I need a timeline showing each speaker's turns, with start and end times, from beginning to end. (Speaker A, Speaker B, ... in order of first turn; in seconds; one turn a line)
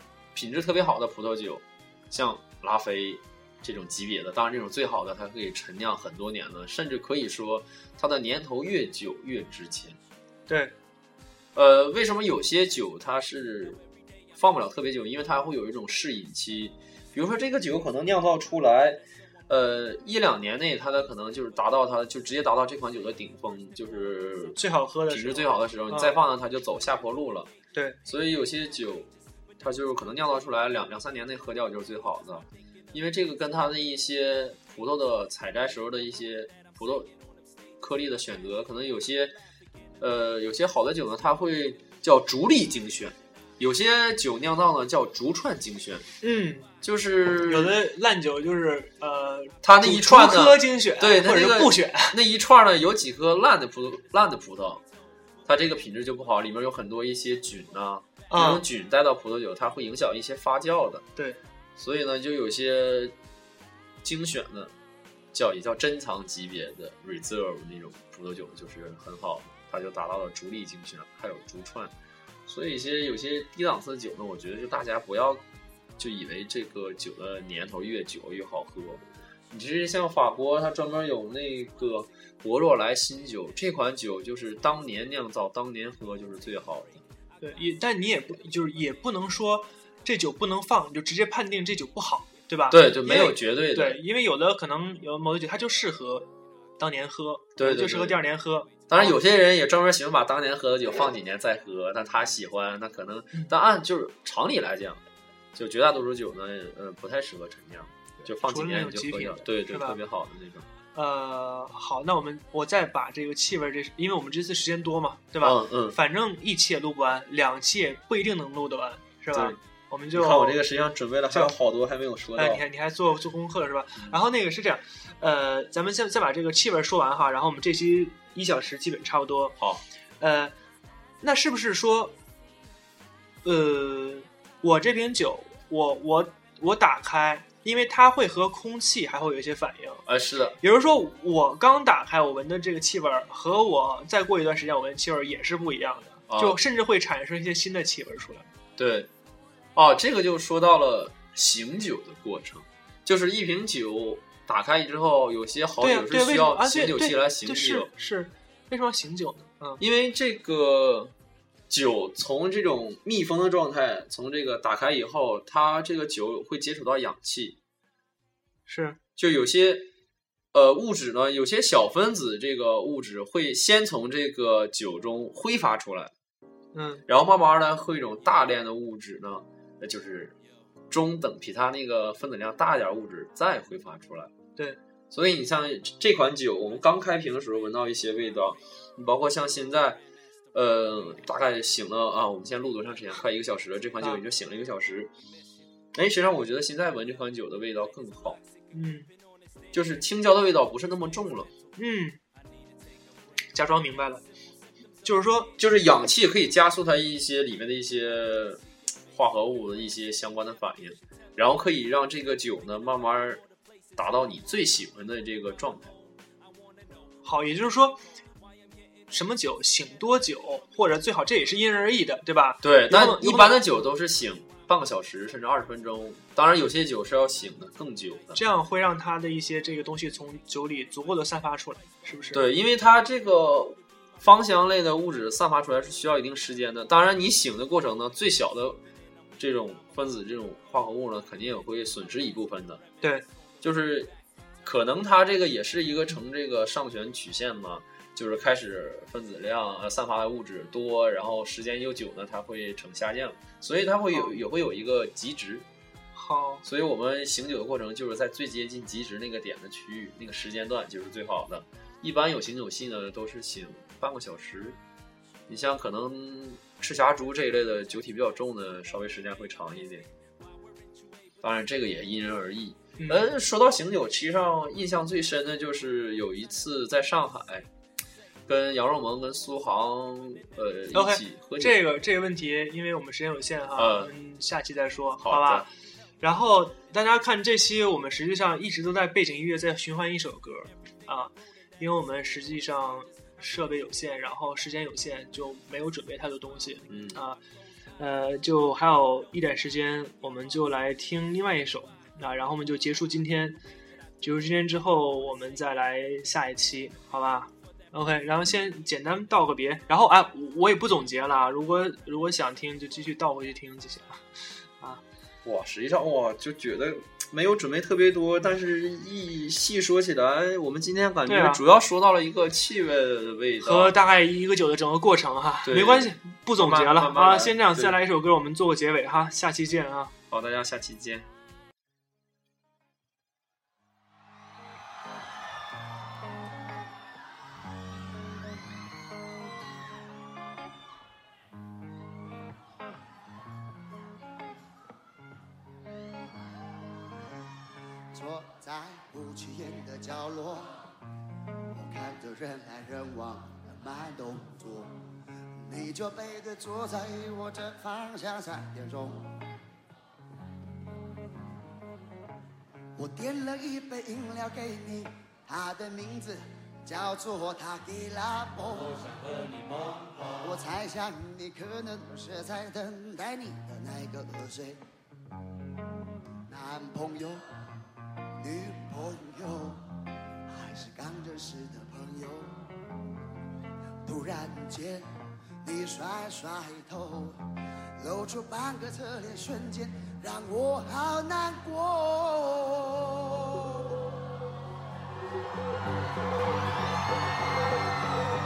Speaker A: 0.3-10.0
Speaker B: 10.5-10.7
Speaker A: 11.6-13.8
Speaker A: 14.3-27.5
Speaker B: 24.6-26.1
Speaker B: 27.7-28.0
Speaker A: 28.1-37.1
Speaker A: 37.8-39.4
Speaker A: 40.0-46.1
Speaker B: 46.2-46.7
Speaker A: 46.8-47.8
Speaker B: 47.4-52.2
Speaker A: 49.6-54.8
Speaker A: 55.5-61.1
Speaker B: 58.3-58.6
Speaker A: 61.8-63.2
Speaker A: 64.0-64.7
Speaker A: 65.3-71.9
Speaker A: 72.5-75.5
Speaker A: 76.0-87.0
Speaker B: 87.4-99.2
Speaker A: 92.7-94.0
Speaker A: 97.6-98.2
Speaker A: 98.9-110.7
Speaker B: 108.2-110.0
Speaker B: 111.0-120.6
Speaker A: 115.4-116.0
Speaker A: 119.3-119.6
Speaker A: 120.1-122.6
Speaker B: 122.4-129.6
Speaker A: 129.6-129.8
Speaker B: 130.2-130.5
Speaker B: 131.2-132.2
Speaker B: 133.4-140.1
Speaker A: 140.1-140.6
Speaker B: 140.6-148.5
Speaker A: 146.3-146.6
Speaker A: 148.8-149.1
Speaker A: 149.8-157.9
Speaker B: 155.8-159.8
Speaker A: 159.8-161.2
Speaker A: 161.7-167.6
Speaker B: 168.7-169.0
Speaker A: 169.2-169.9
Speaker A: 170.5-176.1
Speaker B: 176.7-177.1
Speaker A: 177.1-180.4
Speaker A: 180.9-184.3
Speaker A: 185.1-190.0
Speaker A: 190.5-195.1
Speaker A: 195.9-198.4
Speaker B: 198.7-199.1
Speaker A: 199.7-201.5
Speaker B: 201.8-202.2
Speaker B: 203.5-204.2
Speaker B: 205.0-205.6
Speaker A: 205.6-213.4
Speaker A: 214.0-215.9
Speaker B: 217.2-218.0
Speaker B: 219.1-223.6
Speaker A: 222.6-228.4
Speaker B: 228.4-232.4
Speaker A: 232.3-238.8
Speaker A: 239.4-242.8
Speaker A: 243.6-244.1
Speaker A: 244.6-255.7
Speaker B: 256.1-256.6
Speaker A: 256.6-264.8
Speaker A: 265.5-270.1
Speaker A: 271.4-277.7
Speaker B: 273.0-273.3
Speaker A: 278.5-281.8
Speaker B: 280.9-285.7
Speaker A: 283.8-284.1
Speaker A: 285.2-285.7
Speaker B: 286.2-297.4
Speaker A: 296.9-297.2
Speaker B: 298.0-303.6
Speaker B: 304.2-314.2
Speaker A: 315.4-323.9
Speaker B: 321.3-321.6
Speaker B: 323.6-330.1
Speaker A: 325.6-328.0
Speaker A: 330.3-331.3
Speaker C: 348.1-350.7
Speaker C: 351.7-354.9
Speaker C: 355.6-359.3
Speaker C: 363.0-369.4
Speaker C: 370.3-374.8
Speaker C: 376.5-377.4
Speaker C: 378.4-379.8
Speaker C: 380.5-382.6
Speaker C: 384.1-385.1
Speaker C: 385.6-387.4
Speaker C: 388.0-393.9